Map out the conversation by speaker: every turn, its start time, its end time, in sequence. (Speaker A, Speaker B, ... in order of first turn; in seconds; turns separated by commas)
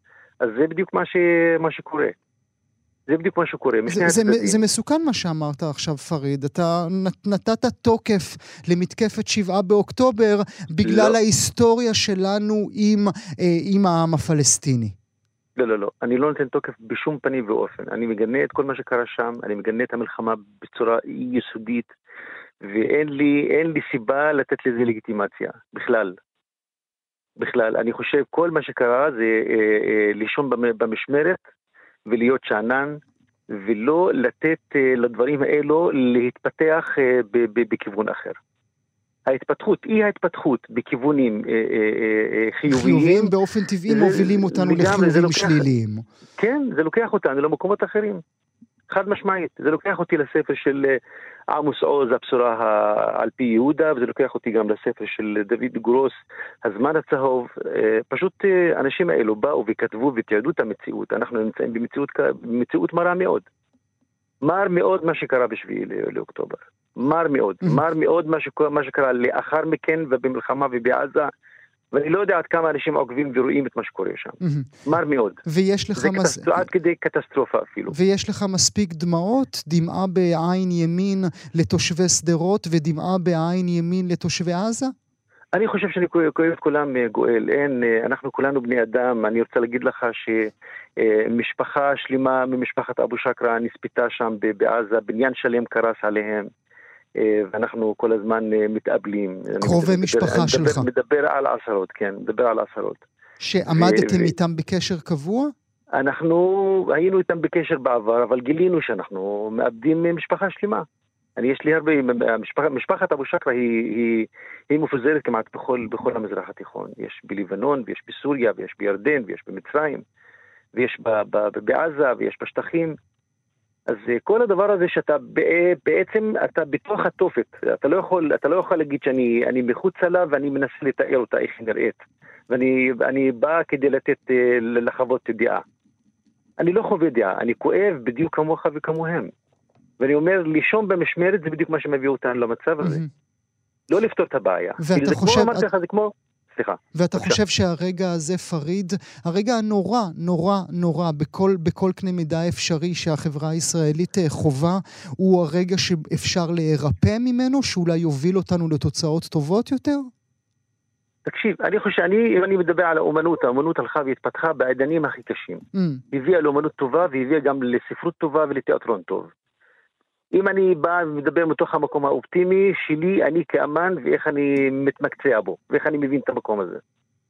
Speaker A: 0.4-2.1, Speaker A: 3.1-4.6, Speaker B: 3.9-14.9, Speaker A: 10.8-11.2, Speaker A: 15.6-21.9, Speaker A: 22.6-26.1, Speaker A: 27.4-31.4, Speaker A: 32.1-33.0, Speaker A: 33.5-38.4, Speaker A: 39.3-43.3, Speaker B: 42.7-46.0, Speaker A: 43.9-45.7, Speaker A: 46.4-48.2, Speaker A: 48.9-51.0, Speaker A: 51.5-63.5, Speaker A: 64.4-71.3, Speaker A: 71.9-75.4, Speaker B: 74.4-74.7, Speaker B: 75.5-76.5, Speaker A: 76.0-78.0, Speaker B: 77.9-84.9, Speaker A: 85.5-96.5, Speaker A: 97.2-103.0, Speaker B: 99.6-100.8, Speaker B: 103.4-105.5, Speaker A: 103.7-104.3, Speaker A: 106.0-110.8, Speaker A: 111.4-120.0, Speaker A: 120.7-122.9, Speaker A: 123.9-135.6, Speaker A: 136.6-139.3, Speaker A: 140.0-143.0, Speaker B: 142.8-143.1, Speaker A: 143.9-147.4, Speaker B: 144.8-145.7, Speaker B: 146.9-160.1, Speaker A: 161.2-169.3, Speaker B: 165.7-166.0, Speaker A: 170.3-176.8